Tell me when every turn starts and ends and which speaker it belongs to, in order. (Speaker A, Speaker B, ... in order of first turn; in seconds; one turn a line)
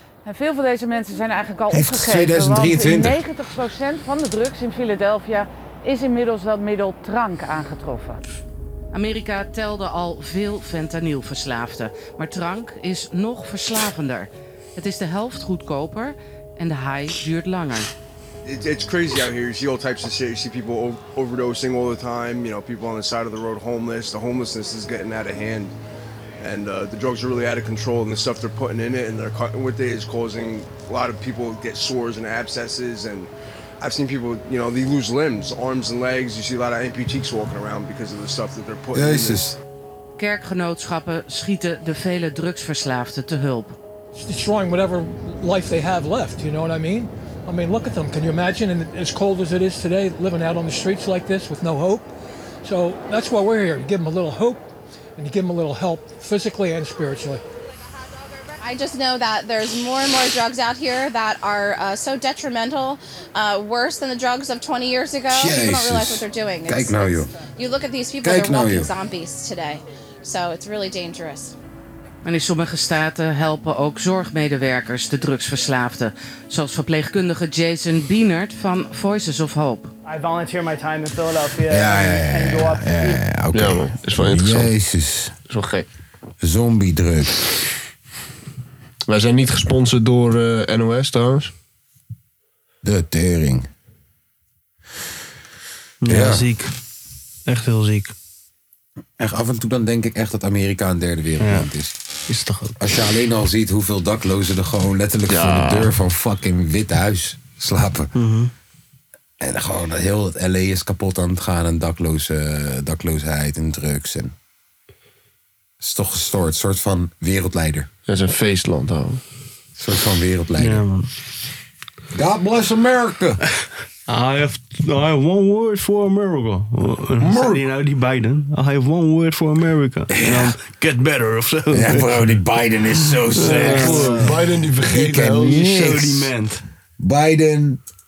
Speaker A: 0.2-8.2
Speaker B: 1.7-3.2
Speaker C: 8.9-17.9
Speaker D: 18.4-25.7
Speaker D: 26.4-39.5
Speaker B: 39.0-39.6
Speaker C: 40.2-43.8
Speaker E: 44.1-52.1
Speaker E: 52.6-57.4
Speaker F: 58.6-71.5
Speaker B: 65.3-67.3
Speaker B: 68.2-68.9
Speaker C: 72.2-79.9
Speaker G: 80.1-83.2
Speaker B: 81.7-85.3
Speaker H: 83.5-84.7
Speaker H: 85.5-85.9
Speaker B: 86.4-87.5
Speaker H: 89.1-91.5
Speaker B: 92.8-93.7
Speaker I: 96.0-96.7
Speaker B: 96.1-96.4
Speaker I: 97.5-98.1
Speaker B: 99.2-101.9
Speaker I: 101.4-101.7
Speaker I: 102.3-102.8
Speaker B: 102.8-108.1
Speaker H: 105.3-105.9
Speaker I: 108.2-108.5
Speaker B: 109.4-114.3
Speaker B: 115.8-117.9
Speaker H: 118.1-119.2
Speaker B: 119.8-120.8
Speaker I: 120.6-121.1
Speaker B: 122.1-123.4
Speaker I: 124.1-132.1
Speaker B: 127.2-127.6
Speaker B: 130.1-130.6
Speaker B: 131.7-134.3
Speaker I: 133.3-134.3
Speaker H: 133.4-135.7
Speaker B: 134.8-136.3
Speaker I: 135.4-136.6
Speaker B: 137.0-137.8